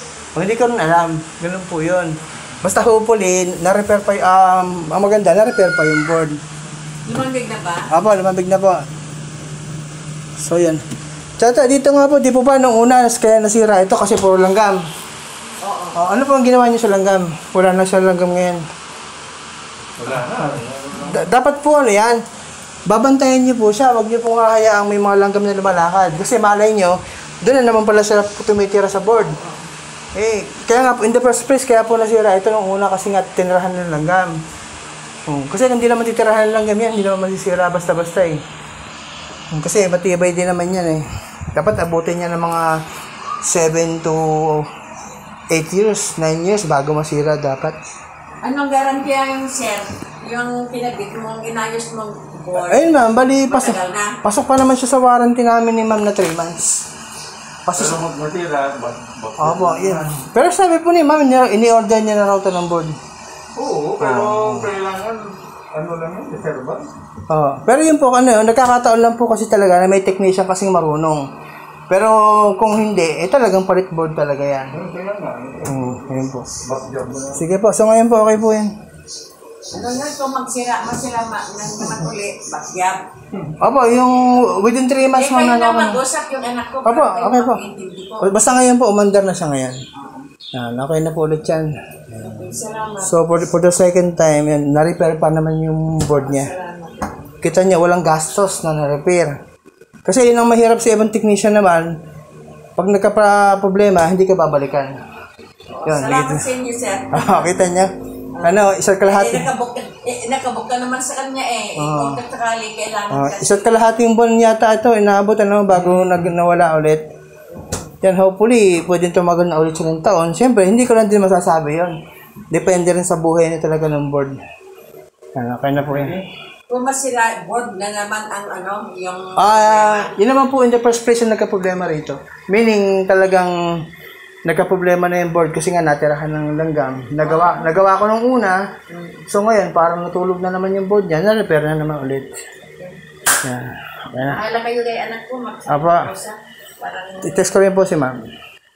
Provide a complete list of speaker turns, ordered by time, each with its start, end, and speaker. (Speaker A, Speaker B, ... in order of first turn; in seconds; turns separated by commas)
Speaker A: 0.3-6.4, Speaker B: 7.0-7.9, Speaker A: 7.9-8.8, Speaker A: 10.4-10.8, Speaker A: 11.4-14.8, Speaker B: 15.6-16.0, Speaker A: 15.9-18.6, Speaker C: 20.0-21.2, Speaker A: 20.2-22.2, Speaker A: 22.9-29.4, Speaker B: 29.2-29.6, Speaker A: 30.1-34.4, Speaker A: 35.3-38.4, Speaker A: 39.5-42.8, Speaker A: 43.4-44.7, Speaker A: 45.5-47.8, Speaker B: 48.4-54.2, Speaker A: 52.5-56.8, Speaker A: 57.6-58.0, Speaker C: 57.7-60.2, Speaker A: 59.4-63.0, Speaker C: 63.5-66.9, Speaker A: 64.0-64.7, Speaker A: 67.3-71.2, Speaker A: 71.9-74.7, Speaker C: 74.7-77.4, Speaker A: 75.6-76.5, Speaker A: 77.3-78.7, Speaker B: 79.7-83.0, Speaker A: 83.6-86.0, Speaker B: 85.2-88.3, Speaker A: 86.8-87.6, Speaker A: 88.2-89.8, Speaker B: 89.9-90.3, Speaker A: 90.5-92.5, Speaker B: 92.2-93.2, Speaker A: 93.0-96.5, Speaker B: 96.1-97.4, Speaker A: 97.4-99.4, Speaker A: 100.0-101.9, Speaker A: 102.8-105.0, Speaker B: 105.7-107.5, Speaker A: 105.8-106.5, Speaker A: 107.1-109.5, Speaker B: 108.3-113.8, Speaker A: 111.8-112.2, Speaker A: 113.1-117.0, Speaker B: 117.5-117.9, Speaker A: 118.0-122.0, Speaker A: 122.5-124.4, Speaker A: 125.3-126.2, Speaker C: 125.9-126.2, Speaker B: 126.7-130.2, Speaker A: 129.4-133.5, Speaker A: 134.4-138.6, Speaker B: 137.2-137.7, Speaker B: 138.9-139.2, Speaker A: 139.3-142.4, Speaker B: 142.6-143.0, Speaker A: 143.4-144.4, Speaker B: 144.3-147.5, Speaker A: 145.7-146.1, Speaker A: 147.2-148.2